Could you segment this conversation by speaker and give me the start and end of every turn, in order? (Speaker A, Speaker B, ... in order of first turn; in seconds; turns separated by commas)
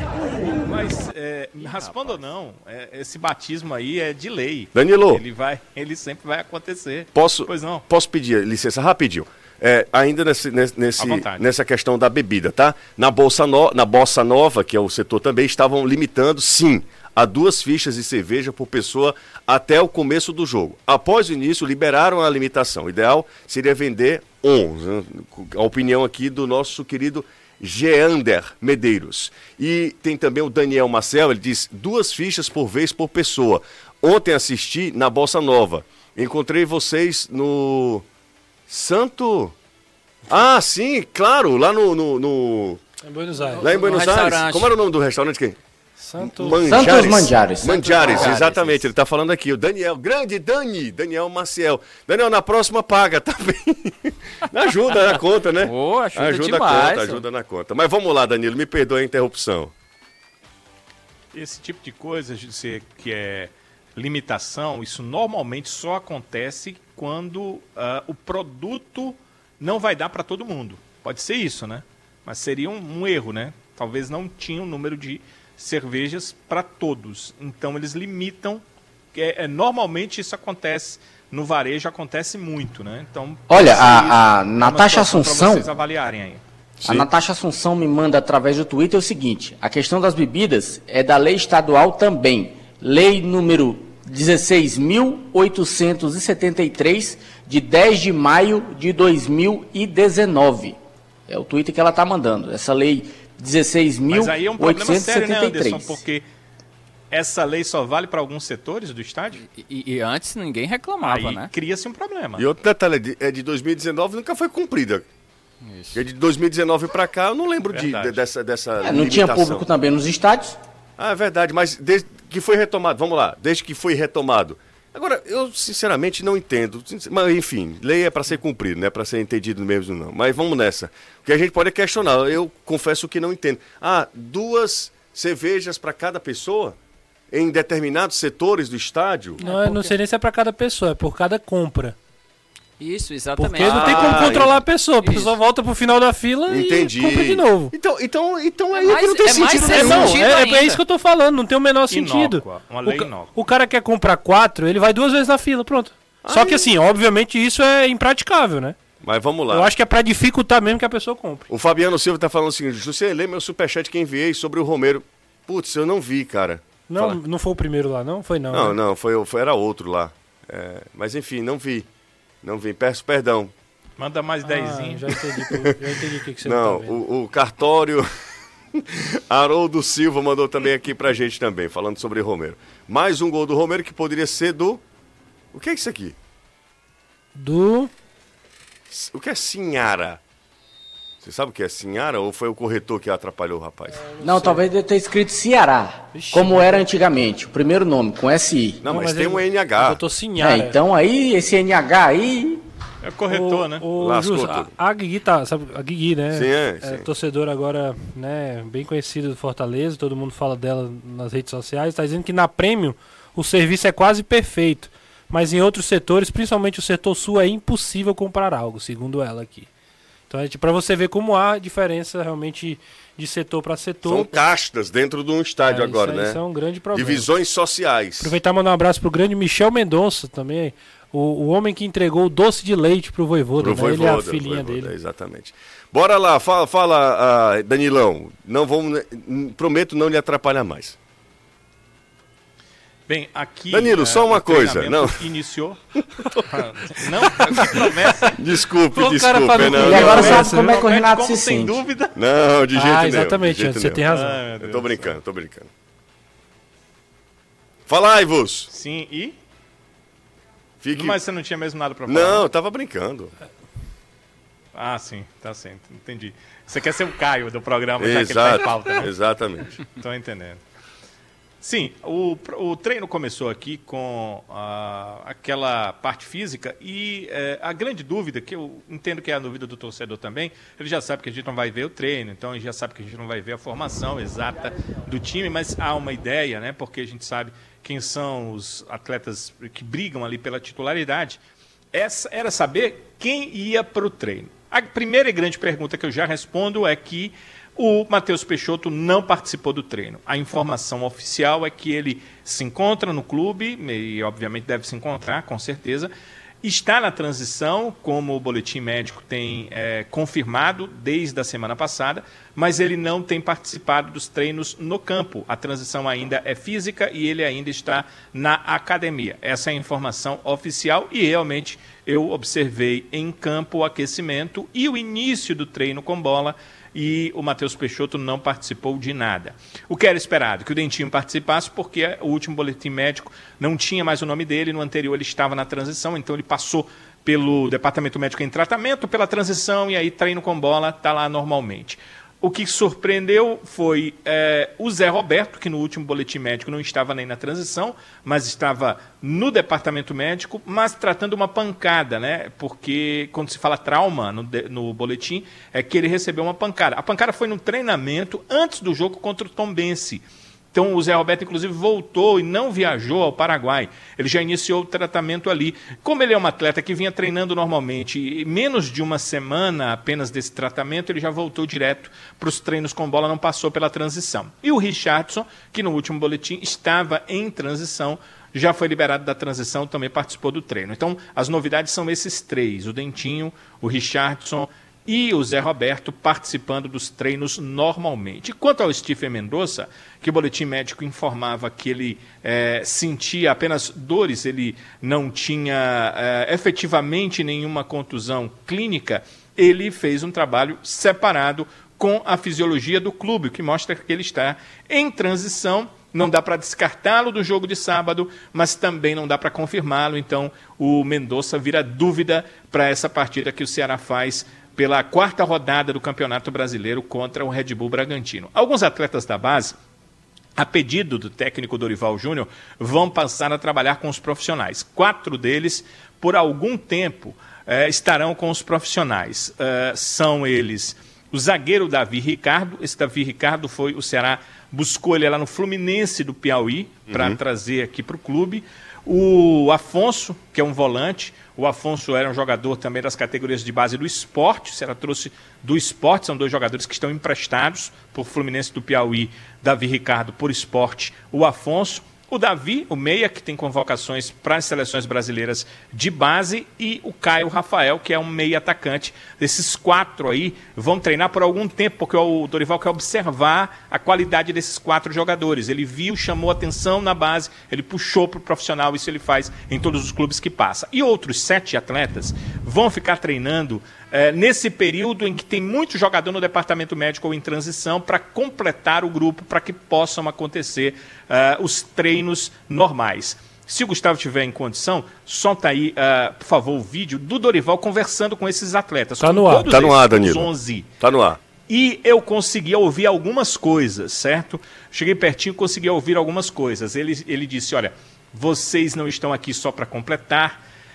Speaker A: 0.6-7.8, Speaker B: 1.6-2.2, Speaker C: 4.7-5.2, Speaker C: 7.1-38.0, Speaker A: 11.0-11.4, Speaker C: 38.7-39.5, Speaker C: 40.3-42.8, Speaker D: 43.0-43.7, Speaker B: 43.4-44.7, Speaker C: 43.6-45.6, Speaker D: 46.0-46.9, Speaker C: 46.2-59.7, Speaker E: 46.6-48.3, Speaker B: 47.7-48.8, Speaker B: 55.6-57.2, Speaker A: 61.3-78.6, Speaker A: 79.1-86.4, Speaker E: 83.5-85.7, Speaker E: 86.8-106.0, Speaker A: 104.1-106.2, Speaker A: 107.1-109.4, Speaker B: 109.5-111.5, Speaker A: 111.0-112.4, Speaker C: 112.4-115.0, Speaker B: 115.6-116.0, Speaker C: 115.9-119.7, Speaker A: 117.7-118.2, Speaker E: 118.8-120.6, Speaker C: 121.0-136.8, Speaker C: 137.3-139.4, Speaker D: 139.4-141.9, Speaker B: 139.4-139.9, Speaker B: 142.8-145.3, Speaker D: 143.4-147.7, Speaker C: 143.6-144.5, Speaker C: 146.5-150.2, Speaker B: 148.8-150.8, Speaker D: 149.5-158.8, Speaker A: 151.9-153.3, Speaker C: 156.2-156.7, Speaker C: 159.0-159.7, Speaker D: 159.5-161.4, Speaker C: 161.5-167.2, Speaker D: 166.9-168.8, Speaker C: 168.5-171.9, Speaker C: 172.4-173.5, Speaker A: 174.0-175.1, Speaker D: 174.4-176.9, Speaker C: 176.4-178.1, Speaker C: 178.7-184.8, Speaker C: 185.5-186.2, Speaker D: 187.3-187.9, Speaker C: 188.9-190.2, Speaker C: 191.2-194.1, Speaker D: 194.1-194.6, Speaker E: 194.2-198.8, Speaker D: 196.1-196.8, Speaker C: 198.8-200.0, Speaker D: 198.8-200.8, Speaker E: 200.4-202.6, Speaker A: 203.0-203.8, Speaker D: 203.3-219.7, Speaker C: 204.0-204.7, Speaker C: 206.3-207.1, Speaker D: 220.3-224.4, Speaker C: 224.1-226.4, Speaker D: 225.7-227.3, Speaker C: 226.9-228.3, Speaker D: 228.2-234.9, Speaker C: 233.6-241.0, Speaker A: 243.1-245.8, Speaker C: 243.7-245.2, Speaker C: 245.9-246.5, Speaker A: 246.3-248.3, Speaker C: 247.5-250.4, Speaker D: 248.9-250.8, Speaker E: 249.8-251.8, Speaker A: 249.8-252.1, Speaker C: 252.1-254.1, Speaker D: 252.7-254.4, Speaker A: 254.0-255.2, Speaker C: 254.6-255.7, Speaker C: 257.9-258.7, Speaker A: 258.7-259.4, Speaker C: 260.8-261.2, Speaker A: 260.9-262.5, Speaker C: 262.1-263.3, Speaker A: 264.7-269.1, Speaker C: 268.0-269.8, Speaker A: 269.8-270.6, Speaker A: 271.6-291.4, Speaker A: 291.9-306.1, Speaker A: 306.6-419.8, Speaker A: 420.6-490.9, Speaker C: 437.1-437.4, Speaker D: 489.2-489.7, Speaker C: 489.7-491.4, Speaker A: 491.7-500.6